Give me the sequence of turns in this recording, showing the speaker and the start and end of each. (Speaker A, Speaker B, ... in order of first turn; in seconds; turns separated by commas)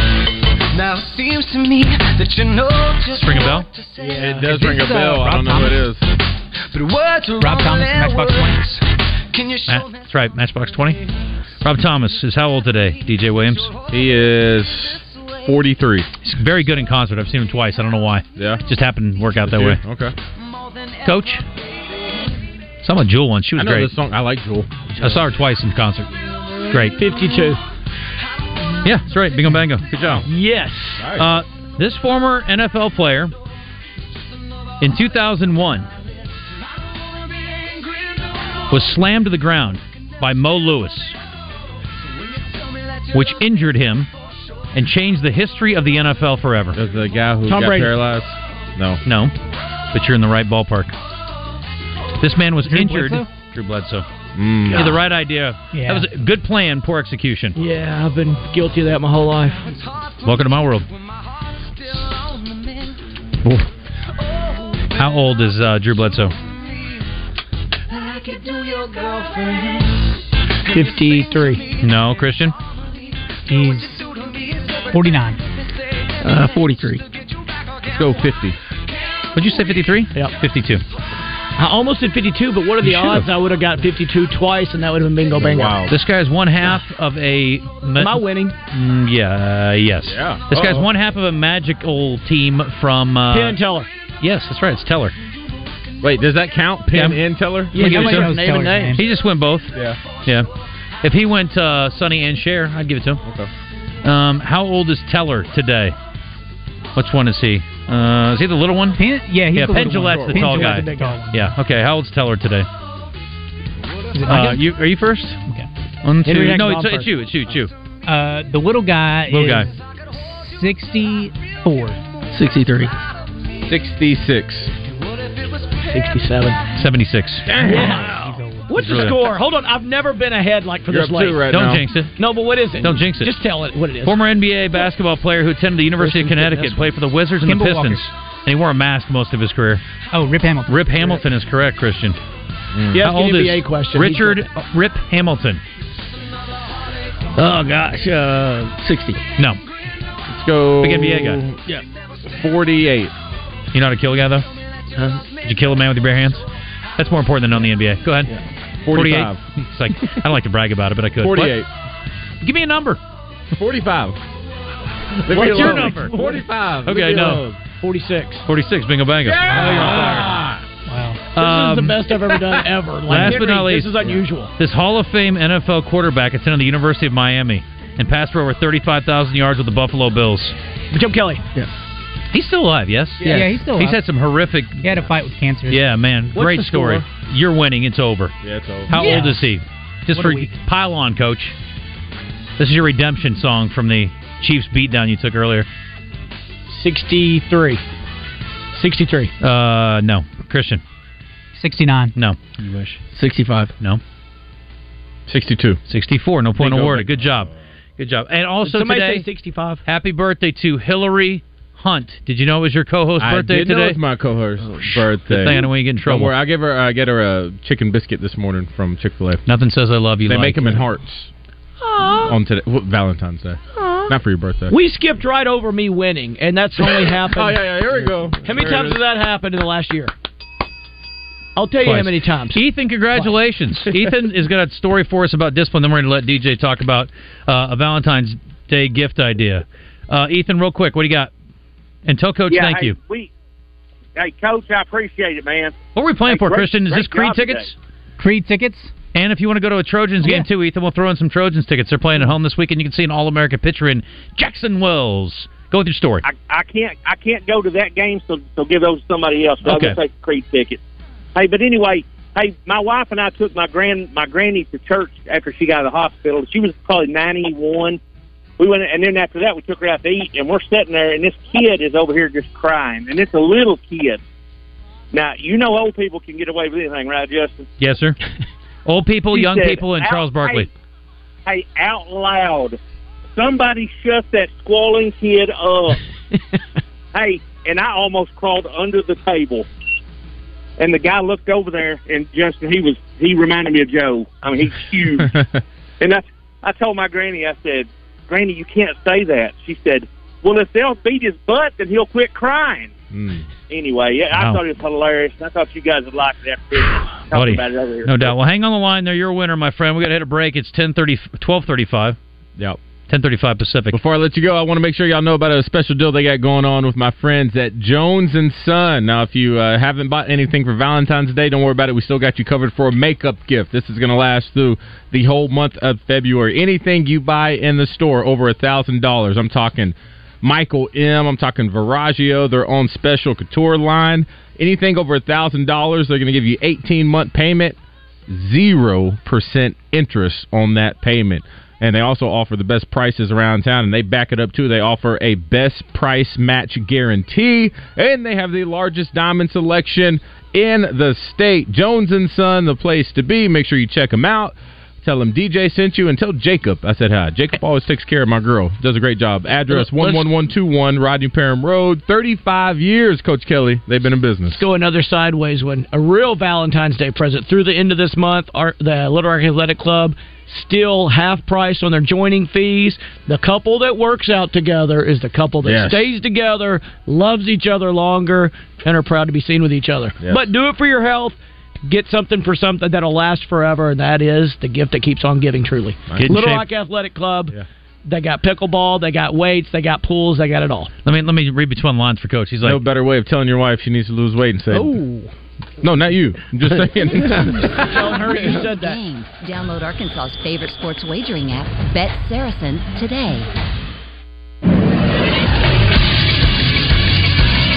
Speaker A: 0.7-4.2, Speaker B: 3.1-3.7, Speaker C: 4.0-6.0, Speaker D: 4.2-5.8, Speaker A: 6.7-9.9, Speaker D: 7.4-8.7, Speaker B: 9.7-11.0, Speaker B: 11.6-13.7, Speaker C: 13.9-16.1, Speaker B: 16.2-19.8, Speaker C: 18.4-18.6, Speaker C: 19.4-20.1, Speaker B: 21.0-21.4, Speaker B: 22.8-23.9, Speaker C: 23.6-25.2, Speaker B: 25.0-26.1, Speaker B: 26.7-27.0, Speaker E: 27.0-27.6, Speaker B: 28.8-30.2, Speaker E: 30.3-31.1, Speaker C: 31.0-31.4, Speaker B: 31.2-33.3, Speaker B: 34.8-35.9, Speaker B: 38.7-41.1, Speaker B: 43.1-44.1, Speaker B: 44.7-46.8, Speaker C: 46.7-49.0, Speaker E: 47.5-48.0, Speaker B: 49.0-49.3, Speaker B: 49.9-51.0, Speaker B: 52.2-54.1, Speaker D: 52.7-53.3, Speaker C: 54.4-55.0, Speaker B: 54.7-57.6, Speaker D: 55.7-56.1, Speaker E: 57.6-59.8, Speaker B: 60.2-60.9, Speaker B: 65.0-66.3, Speaker A: 68.3-69.3, Speaker E: 70.7-71.6, Speaker F: 70.8-71.3, Speaker B: 71.8-72.5, Speaker D: 73.5-74.0, Speaker D: 74.9-75.4, Speaker F: 76.2-77.0, Speaker C: 77.9-78.6, Speaker B: 79.3-80.8, Speaker E: 81.6-85.8, Speaker B: 82.8-83.2, Speaker C: 85.3-85.9, Speaker B: 85.9-93.6, Speaker E: 88.0-88.5, Speaker C: 90.1-90.9, Speaker E: 93.3-93.9, Speaker B: 94.2-95.2, Speaker C: 96.0-98.0, Speaker B: 96.9-97.2, Speaker E: 97.7-99.0, Speaker D: 97.8-99.0, Speaker B: 97.8-98.3, Speaker B: 99.0-100.5, Speaker B: 101.0-103.2, Speaker B: 104.0-106.0, Speaker B: 107.0-109.0, Speaker D: 109.0-111.5, Speaker B: 109.5-112.7, Speaker C: 110.0-110.3, Speaker E: 110.3-111.2, Speaker D: 114.1-114.6, Speaker B: 114.3-115.4, Speaker B: 116.0-117.7, Speaker E: 116.3-117.1, Speaker D: 118.1-122.0, Speaker B: 119.3-119.7, Speaker F: 122.3-122.9, Speaker C: 123.7-124.7, Speaker E: 125.8-126.6, Speaker B: 126.8-127.5, Speaker C: 127.5-128.1, Speaker D: 127.6-129.1, Speaker E: 127.6-131.5, Speaker B: 128.8-129.2, Speaker C: 130.9-131.8, Speaker B: 131.5-132.2, Speaker E: 132.2-134.2, Speaker B: 132.8-133.3, Speaker B: 134.0-139.8, Speaker E: 136.0-136.7, Speaker D: 137.4-138.1, Speaker D: 140.1-141.2, Speaker B: 140.7-142.2, Speaker C: 142.7-143.1, Speaker E: 142.9-144.5, Speaker B: 143.0-145.6, Speaker F: 147.4-149.2, Speaker C: 150.3-151.5, Speaker B: 150.8-151.4, Speaker C: 152.3-153.1, Speaker B: 153.7-154.5, Speaker B: 155.4-156.5, Speaker B: 157.0-158.3, Speaker C: 158.9-159.4, Speaker B: 158.9-161.6, Speaker C: 161.2-161.7, Speaker B: 162.4-163.0, Speaker C: 163.6-164.2, Speaker C: 165.3-167.6, Speaker E: 165.3-166.4, Speaker B: 165.3-166.2, Speaker B: 166.8-167.4, Speaker E: 167.8-168.4, Speaker B: 168.5-170.3, Speaker C: 169.2-170.6, Speaker E: 169.5-170.3, Speaker D: 169.5-170.3, Speaker D: 170.9-171.3, Speaker B: 171.4-172.0, Speaker E: 171.4-174.5, Speaker B: 173.1-174.0, Speaker B: 174.6-180.6, Speaker E: 180.9-181.4, Speaker B: 182.3-185.0, Speaker D: 183.2-184.0, Speaker D: 184.8-185.8, Speaker B: 185.7-188.3, Speaker E: 186.3-187.1, Speaker C: 188.4-188.9, Speaker B: 188.9-191.6, Speaker D: 188.9-189.5, Speaker D: 190.1-190.5, Speaker B: 192.6-195.7, Speaker E: 196.7-197.8, Speaker E: 198.7-199.3, Speaker B: 199.4-200.8, Speaker D: 201.6-202.1, Speaker B: 202.2-203.0, Speaker F: 203.1-203.7, Speaker C: 205.3-205.8, Speaker B: 205.9-209.3, Speaker C: 206.6-207.5, Speaker E: 208.7-209.8, Speaker B: 209.8-214.0, Speaker C: 213.2-219.4, Speaker B: 214.8-216.3, Speaker B: 219.5-220.8, Speaker C: 220.3-221.3, Speaker E: 221.9-222.3, Speaker C: 222.2-224.8, Speaker E: 224.7-227.8, Speaker C: 226.8-229.0, Speaker E: 228.4-230.1, Speaker E: 231.6-232.6, Speaker B: 231.8-241.3, Speaker B: 242.1-243.0, Speaker G: 242.5-243.3, Speaker G: 244.2-247.7, Speaker B: 245.9-247.8, Speaker D: 248.2-248.9, Speaker B: 249.1-256.2, Speaker G: 256.2-260.8, Speaker B: 259.6-260.0, Speaker G: 261.4-268.0, Speaker G: 268.6-274.2, Speaker G: 275.1-277.7, Speaker B: 277.8-278.2, Speaker B: 278.9-280.7, Speaker G: 279.3-280.7, Speaker G: 281.5-282.8, Speaker G: 283.4-286.0, Speaker G: 287.1-289.7, Speaker G: 290.8-295.4, Speaker C: 295.2-295.6, Speaker G: 296.0-302.9, Speaker C: 303.1-303.4, Speaker G: 303.7-308.4, Speaker B: 304.3-304.6, Speaker B: 306.9-312.2, Speaker B: 313.1-314.0, Speaker C: 313.9-337.8, Speaker C: 338.3-364.6, Speaker E: 359.7-360.3, Speaker E: 364.5-390.9, Speaker C: 375.6-376.1, Speaker C: 386.1-386.4, Speaker B: 386.2-386.6, Speaker B: 391.1-392.8, Speaker C: 392.6-395.0, Speaker E: 394.7-395.3, Speaker C: 395.8-397.9, Speaker H: 397.5-403.5, Speaker E: 397.6-399.0